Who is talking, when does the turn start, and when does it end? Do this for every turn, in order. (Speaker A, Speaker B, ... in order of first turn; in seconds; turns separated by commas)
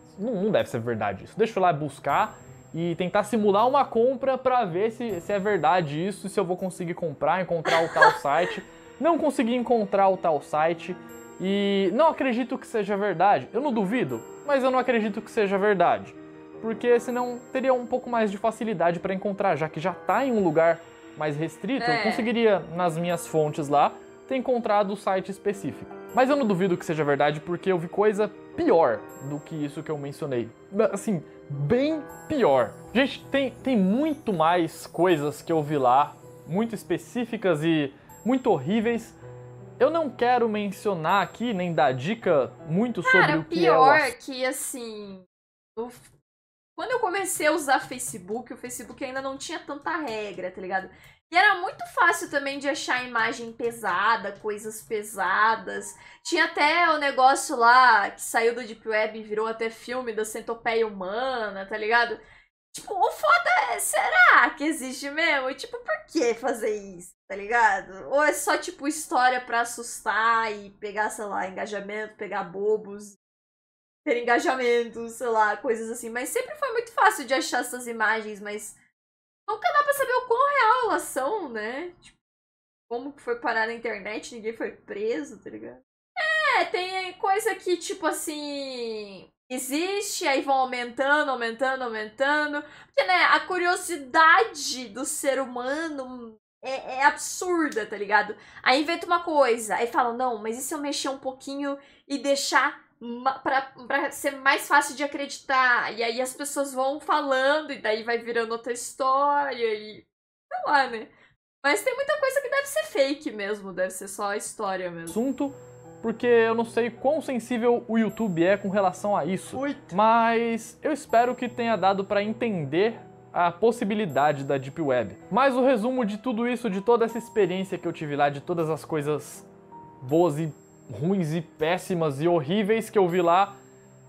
Speaker A: 0.1-39.2, Speaker B: 7.8-8.2, Speaker B: 21.8-22.3, Speaker A: 39.8-44.1, Speaker B: 43.0-46.1, Speaker B: 46.8-62.2, Speaker B: 62.7-73.2, Speaker B: 74.0-78.8, Speaker B: 79.5-82.2, Speaker B: 82.9-111.1, Speaker B: 111.6-115.2, Speaker A: 115.1-129.5, Speaker B: 119.5-120.0, Speaker A: 130.0-133.6